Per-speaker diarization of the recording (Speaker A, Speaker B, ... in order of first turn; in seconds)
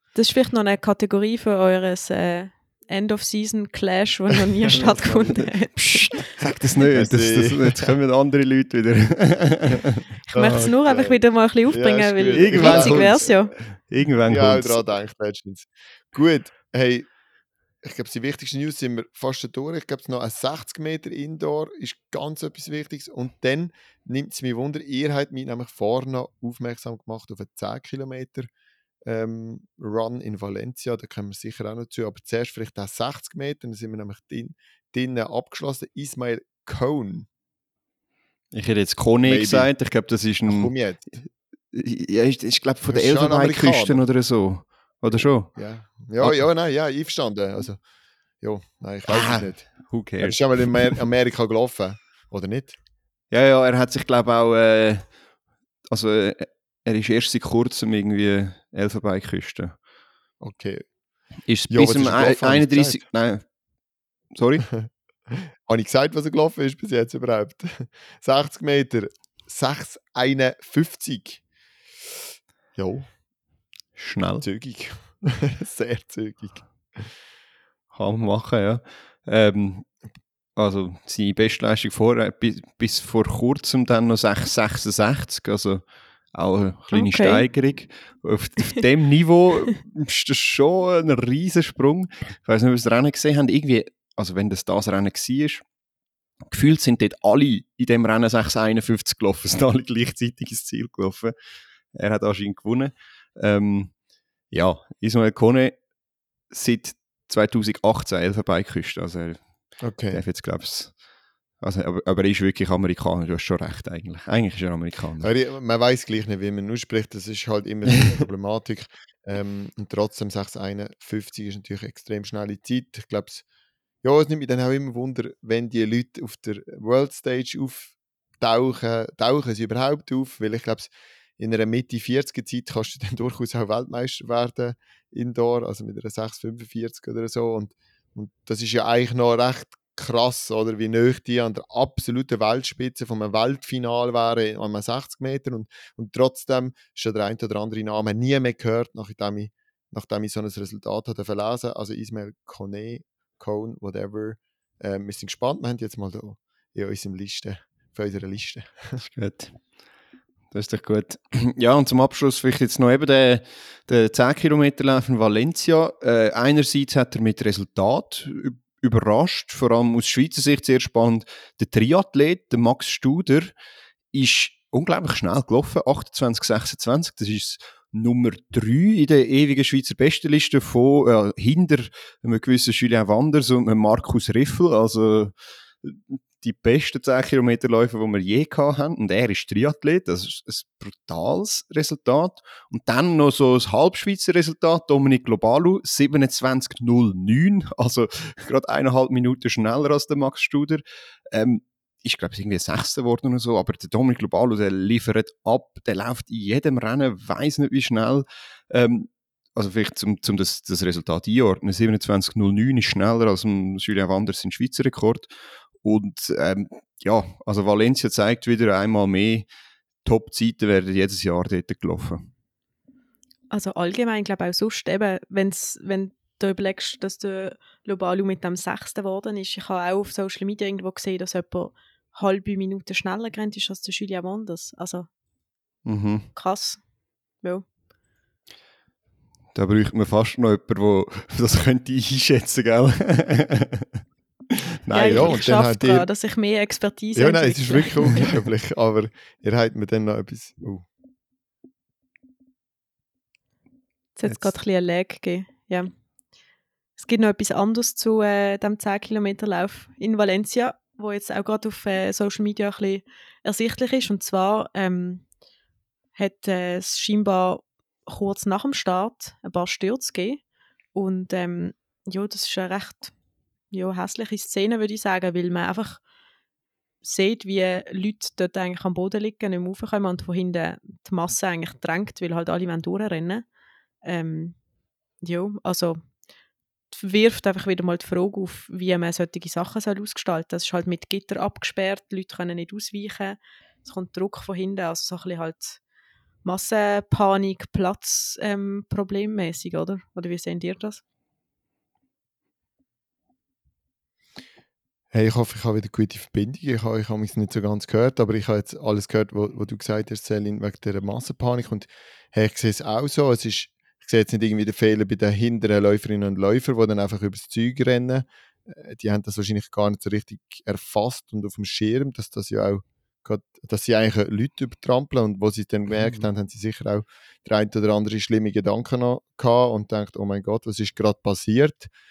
Speaker A: 0.1-6.4, 10.3-13.6, 86.9-87.4, 223.5-235.1, 236.3-236.8, 244.9-248.3, 254.2-255.9, 257.0-265.2, 266.1-270.4, 270.9-273.1, 273.7-276.0, 277.0-283.5, 284.0-284.6, 285.2-286.0, 286.9-295.8, 296.4-301.0
Speaker B: 4.7-5.5, 6.4-7.9, 10.3-13.4, 14.3-17.1, 17.8-28.5, 29.1-37.3, 39.2-39.7, 40.5-41.2, 42.9-44.1, 45.5-47.8, 48.4-52.8, 60.4-60.9, 61.7-63.0, 64.7-71.4, 72.8-73.1, 74.4-77.1, 109.8-110.2, 115.2-123.4, 124.0-159.0, 244.9-246.1, 247.1-250.8, 254.2-254.5, 305.1-331.9
Speaker C: 5.8-10.1, 12.3-14.8, 38.5-40.7, 41.7-45.6, 46.2-46.5, 49.1-51.0, 53.3-55.1, 55.9-59.8, 61.5-63.5, 64.3-64.7, 74.0-74.4, 77.9-79.9, 80.6-95.6, 96.5-101.3, 101.9-103.9, 104.5-105.8, 106.5-111.0, 111.6-115.3, 159.0-159.6, 160.5-173.5, 174.1-215.3, 215.8-219.5, 220.0-222.3, 235.8-236.3, 239.5-244.0, 244.8-245.5